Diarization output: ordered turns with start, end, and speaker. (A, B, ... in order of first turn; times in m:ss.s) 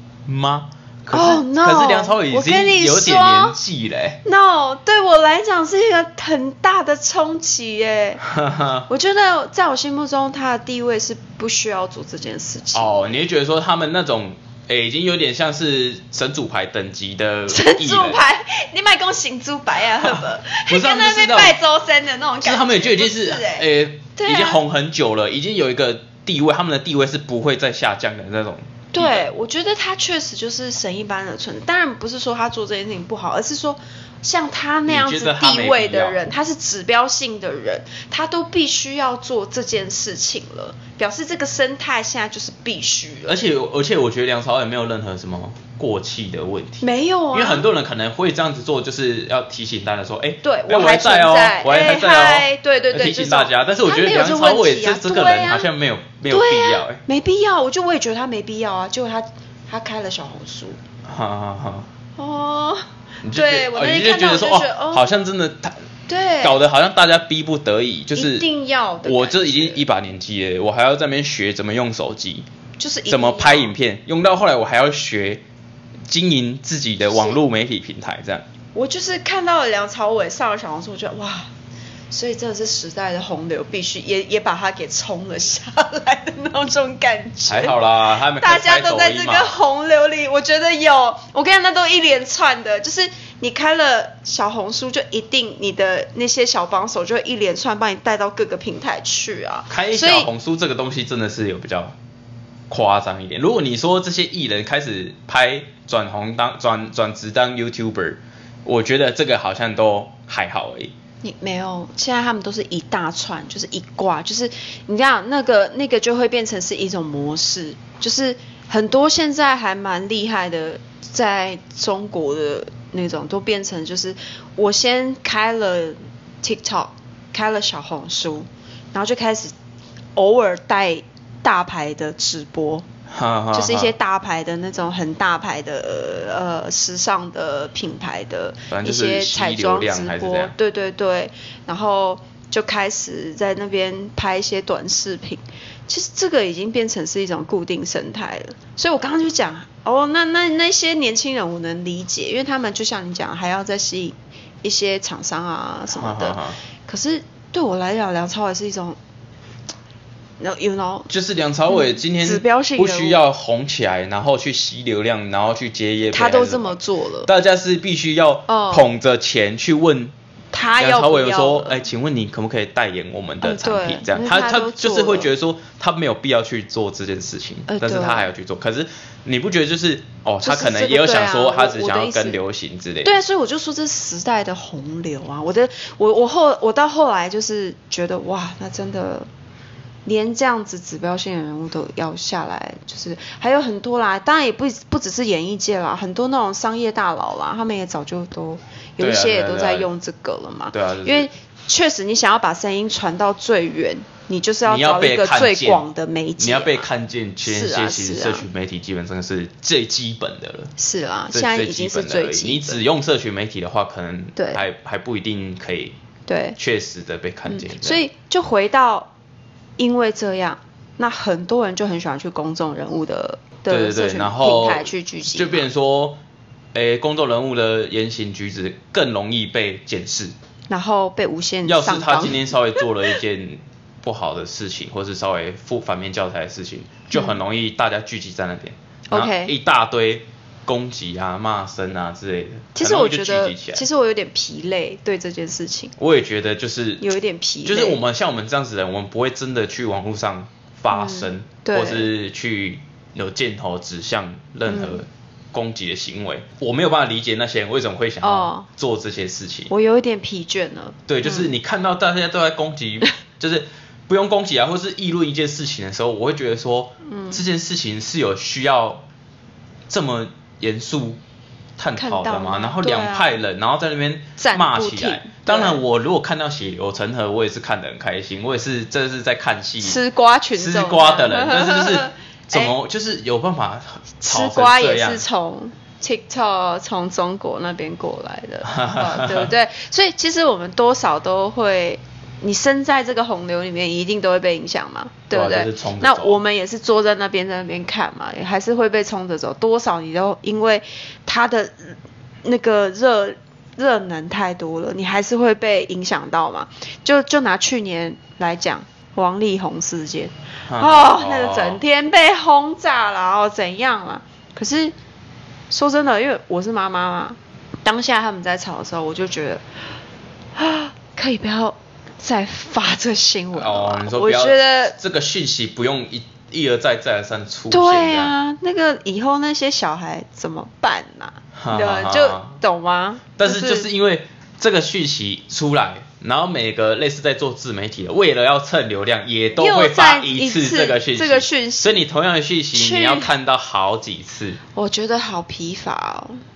0:00.2-0:04.2 A
0:01.1-0:03.6 B
0:04.2-0:08.2 B
0:08.2-0:08.8 A
0:08.9-0:13.0 B
0:12.7-0:18.2 A
0:17.5-0:23.6 B
0:20.0-0:21.6 A
0:22.4-0:29.3 A
0:24.2-0:24.6 B
0:28.9-0:43.3 B
0:34.9-0:36.2 A
0:43.2-0:57.0 A
0:46.8-0:47.7 B
0:50.4-0:55.7 B
0:56.3-1:00.8 B
1:01.0-1:01.9 A
1:02.2-1:05.1 B
1:03.2-1:05.8 A
1:06.1-1:06.6 B
1:06.4-1:08.4 A
1:08.1-1:09.8 B
1:09.0-1:12.4 A
1:12.8-1:13.7 B
1:13.1-1:15.4 A
1:16.1-1:18.4 A
1:17.1-1:17.4 B
1:18.7-1:21.5 B
1:22.1-1:27.8 B
1:27.5-1:29.5 A
1:28.3-1:40.3 B
1:39.7-1:41.9 A
1:42.7-1:50.9 A
1:51.2-2:09.5 B
2:10.2-2:12.8 B
2:13.1-2:13.9 A
2:13.5-2:39.0 B
2:18.7-2:20.5 A
2:35.9-2:36.6 A
2:40.4-2:41.1 B
2:41.1-2:50.1 A
2:41.7-2:43.2 B
2:46.1-2:47.3 B
2:48.5-2:48.8 B
2:50.5-2:51.8 B
2:50.8-3:03.2 A
2:53.4-2:55.3 B
2:57.7-2:58.3 B
3:00.4-3:02.4 B
3:03.0-3:09.3 B
3:10.0-3:26.8 B
3:19.0-3:19.9 A
3:20.7-3:21.3 A
3:24.6-3:25.8 A
3:26.4-3:30.7 A
3:27.4-3:28.5 B
3:30.8-3:32.8 B
3:31.3-3:36.0 A
3:34.4-3:34.6 B
3:36.3-3:36.6 B
3:36.6-3:38.0 A
3:37.5-3:39.1 B
3:39.8-3:45.7 B
3:43.7-3:46.2 A
3:46.7-3:50.3 A
3:50.7-3:52.8 B
3:51.6-4:03.8 A
3:57.1-3:57.4 B
3:59.1-3:59.5 B
4:02.7-4:05.9 B
4:06.0-4:07.0 A
4:07.0-4:08.0 B
4:07.6-4:19.7 A
4:10.9-4:12.1 B
4:14.7-4:15.0 B
4:18.2-4:18.7 B
4:19.7-4:21.5 B
4:21.1-4:29.0 A
4:27.1-4:27.4 B
4:29.9-4:31.2 A
4:31.8-4:40.0 A
4:32.0-4:33.3 B
4:34.4-4:35.8 B
4:39.8-4:42.7 B
4:40.6-4:45.2 A
4:44.2-5:14.9 B
4:48.6-4:49.5 A
4:55.3-4:56.4 A
5:10.7-5:11.8 A
5:15.7-5:19.6 B
5:20.6-5:25.0 B
5:23.5-5:28.3 A
5:27.7-5:33.9 B
5:31.6-5:32.6 A
5:33.4-5:44.6 A
5:39.6-5:42.0 B
5:42.7-5:43.3 B
5:44.7-5:46.4 B